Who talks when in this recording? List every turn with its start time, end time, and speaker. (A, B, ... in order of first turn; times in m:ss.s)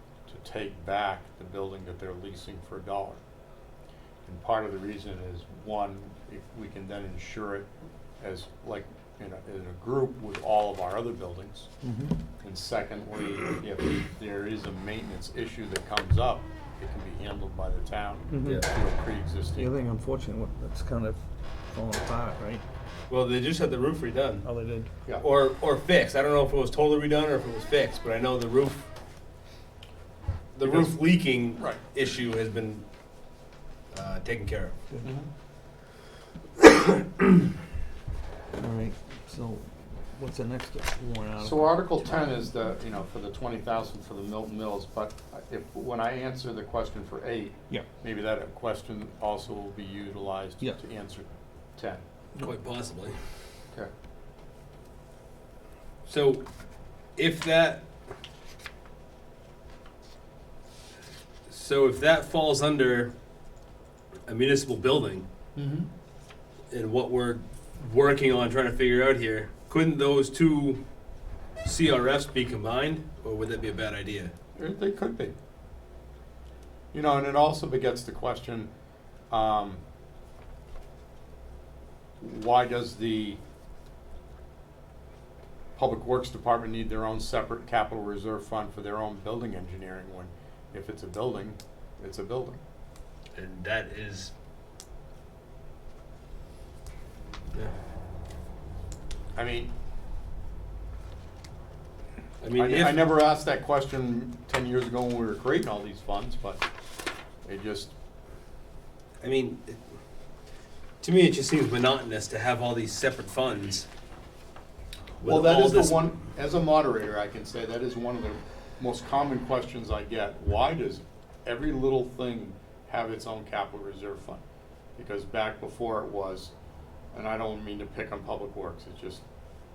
0:00.3-0:03.2 A
0:04.2-0:11.7 A
0:11.8-0:12.2 B
0:12.4-0:19.7 A
0:18.3-0:18.6 B
0:19.6-0:22.6 B
0:23.1-0:24.5 C
0:24.4-0:24.9 B
0:25.2-0:28.8 C
0:30.5-0:32.9 C
0:30.6-0:31.8 A
0:33.9-0:34.7 C
0:35.0-0:35.3 A
0:38.5-0:42.2 B
0:41.4-0:52.0 A
0:52.4-0:53.1 C
0:56.0-0:56.4 C
0:57.2-0:57.9 C
1:01.5-1:03.1 C
1:04.3-1:05.3 C
1:05.5-1:05.9 A
1:06.7-1:10.8 C
1:11.6-1:14.3 C
1:14.6-1:15.3 A
1:16.9-1:18.7 A
1:19.3-1:19.8 A
1:22.2-1:23.4 A
1:25.8-1:32.6 A
1:33.4-1:34.3 C
1:39.3-1:39.7 A
1:42.4-1:43.0 C
1:42.5-1:46.6 A
1:47.4-1:47.9 A
1:49.2-1:49.8 C
1:51.0-1:53.9 C
1:55.2-1:56.2 C
1:55.2-2:04.4 A
2:05.0-2:06.5 A
2:07.1-2:09.2 A